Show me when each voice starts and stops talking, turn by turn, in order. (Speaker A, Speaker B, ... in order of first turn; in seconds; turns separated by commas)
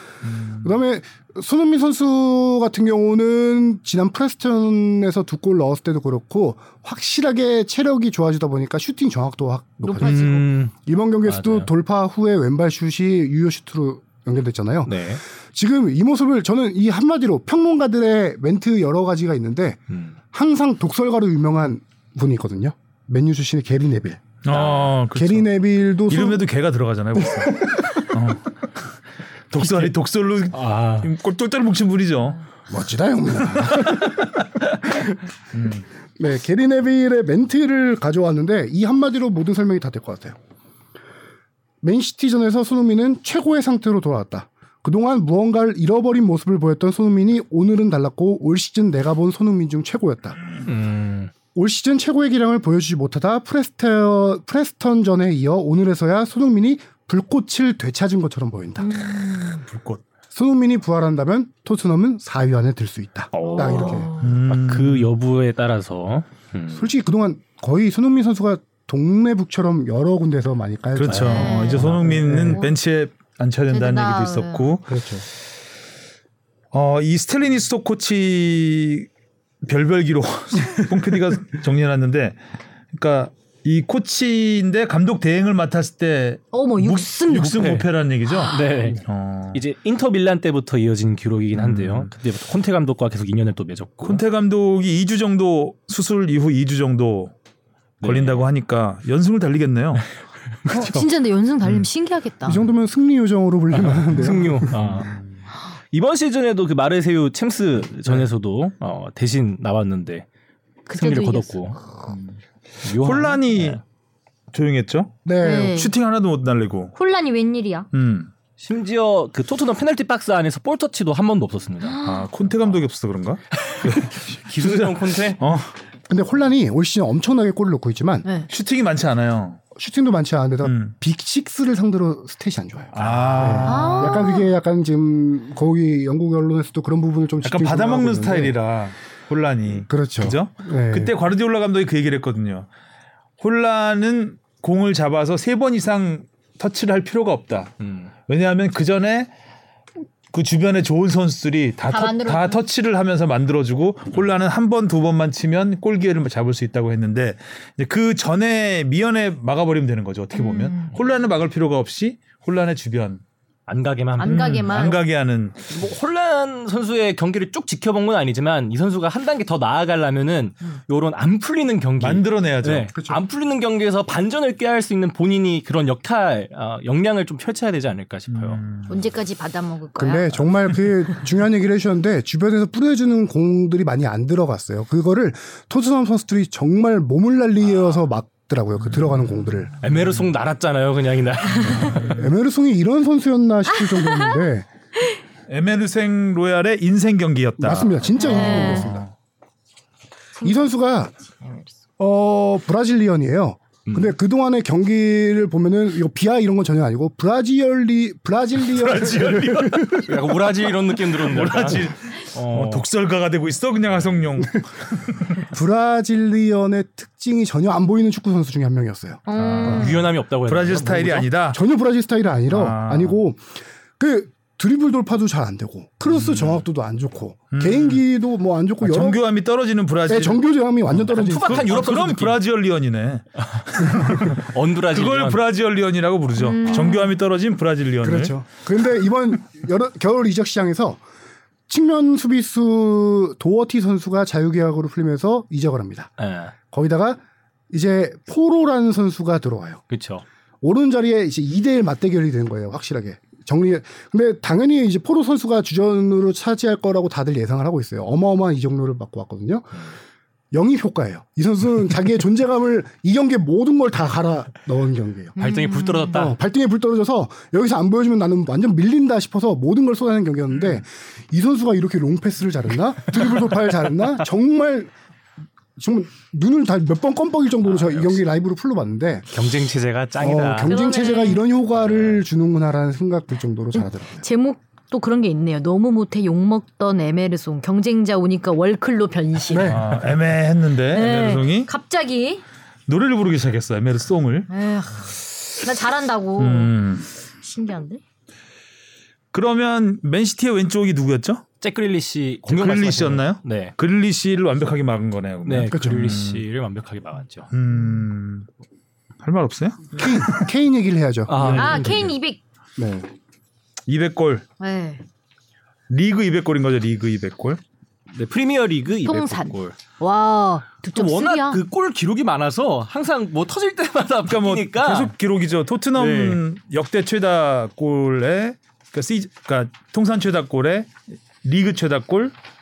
Speaker A: 0.2-0.8, Speaker B: 0.6-19.8, Speaker C: 9.8-10.5, Speaker A: 10.0-10.7, Speaker D: 11.3-11.7, Speaker D: 14.9-15.2, Speaker D: 19.9-20.2, Speaker B: 20.3-26.5, Speaker A: 24.4-28.6, Speaker B: 27.2-28.0, Speaker A: 29.5-32.4, Speaker D: 29.6-29.9, Speaker D: 30.5-31.1, Speaker B: 32.7-34.3, Speaker A: 33.5-34.4, Speaker B: 34.9-35.1, Speaker A: 35.5-35.9, Speaker B: 36.2-40.4, Speaker B: 41.8-50.4, Speaker D: 50.7-51.3, Speaker B: 51.5-58.9, Speaker C: 58.8-59.6, Speaker A: 59.6-60.0, Speaker B: 60.3-64.1, Speaker A: 63.3-65.1, Speaker D: 63.4-66.9, Speaker C: 63.5-64.3, Speaker B: 66.7-72.7, Speaker A: 71.0-75.0, Speaker D: 71.1-72.2, Speaker C: 71.3-71.9, Speaker C: 73.7-74.7, Speaker B: 74.9-75.2, Speaker A: 76.7-79.1, Speaker A: 79.6-82.4, Speaker A: 82.9-89.6, Speaker C: 86.5-87.7, Speaker D: 87.3-87.9, Speaker C: 88.3-88.5, Speaker D: 88.4-89.0, Speaker D: 89.5-94.2, Speaker A: 91.5-92.1, Speaker A: 94.0-97.3, Speaker D: 98.0-98.5, Speaker A: 98.0-100.1, Speaker D: 100.7-101.1, Speaker C: 100.7-102.6, Speaker B: 102.5-104.7, Speaker D: 103.7-105.1, Speaker A: 104.2-105.2, Speaker D: 105.9-110.3, Speaker C: 110.9-111.6, Speaker D: 111.0-111.8, Speaker D: 112.8-113.8, Speaker A: 112.9-113.8, Speaker A: 114.5-116.9, Speaker B: 115.2-115.8, Speaker C: 115.4-115.9, Speaker C: 117.0-117.9, Speaker A: 117.9-118.3, Speaker D: 118.6-122.0, Speaker C: 121.8-122.3, Speaker A: 122.0-125.7, Speaker D: 123.7-125.4, Speaker B: 126.1-128.2, Speaker A: 128.5-129.6, Speaker B: 129.8-138.6, Speaker A: 130.6-130.9, Speaker A: 132.9-134.2, Speaker D: 133.1-133.7, Speaker C: 133.7-134.5, Speaker A: 137.4-142.7, Speaker B: 139.9-141.1, Speaker A: 143.4-147.8, Speaker D: 147.8-148.1, Speaker A: 148.3-149.3, Speaker A: 150.3-163.2, Speaker C: 151.9-152.6, Speaker C: 160.3-160.9, Speaker D: 163.7-164.9, Speaker C: 164.2-165.0, Speaker A: 164.2-165.7, Speaker D: 165.7-178.6, Speaker A: 172.0-172.9, Speaker B: 172.9-173.2, Speaker A: 178.3-178.9, Speaker C: 178.9-180.4, Speaker B: 180.0-189.7, Speaker D: 189.8-192.2, Speaker B: 191.7-194.7, Speaker C: 193.8-194.4, Speaker A: 195.5-199.1, Speaker B: 197.6-199.1, Speaker C: 198.2-198.9, Speaker B: 200.4-201.1, Speaker C: 201.4-201.7, Speaker B: 202.0-210.0, Speaker D: 203.9-204.1, Speaker A: 208.7-210.3, Speaker D: 210.1-212.9, Speaker A: 211.1-215.3, Speaker B: 215.4-219.8, Speaker C: 219.3-220.0, Speaker A: 219.3-221.6, Speaker D: 219.6-221.3, Speaker B: 221.5-229.2, Speaker A: 222.5-223.2, Speaker A: 227.5-228.0, Speaker A: 228.8-230.4, Speaker B: 230.1-231.8, Speaker D: 231.0-232.4, Speaker A: 231.2-238.4, Speaker D: 233.8-235.4, Speaker C: 236.4-237.2, Speaker B: 238.0-241.0, Speaker B: 241.7-246.1, Speaker D: 246.2-246.5, Speaker B: 246.7-249.8, Speaker D: 249.9-250.2, Speaker B: 250.6-259.8, Speaker B: 260.5-265.4, Speaker C: 265.4-266.2, Speaker D: 265.4-266.4, Speaker B: 266.1-274.9, Speaker B: 275.8-279.3, Speaker D: 277.7-278.2, Speaker D: 279.3-280.8, Speaker B: 280.2-284.2, Speaker C: 280.6-281.4, Speaker C: 283.8-289.8, Speaker B: 289.5-290.0, Speaker A: 289.6-291.7, Speaker C: 290.9-292.4, Speaker A: 292.9-294.5, Speaker C: 294.5-296.7, Speaker A: 296.4-297.1, Speaker C: 297.4-298.0, Speaker A: 299.3-301.4, Speaker D: 301.6-303.7, Speaker A: 302.5-306.4, Speaker D: 305.5-307.5, Speaker B: 305.7-306.1, Speaker A: 307.5-308.5, Speaker A: 309.2-310.5, Speaker B: 309.9-312.0, Speaker D: 311.3-312.1, Speaker A: 311.4-311.7, Speaker C: 311.5-312.4, Speaker B: 312.8-313.1, Speaker A: 313.9-314.5, Speaker C: 314.6-315.0, Speaker A: 315.9-317.6, Speaker D: 318.1-319.8, Speaker C: 319.1-321.6, Speaker D: 320.9-325.1, Speaker A: 324.2-332.3, Speaker D: 326.0-326.4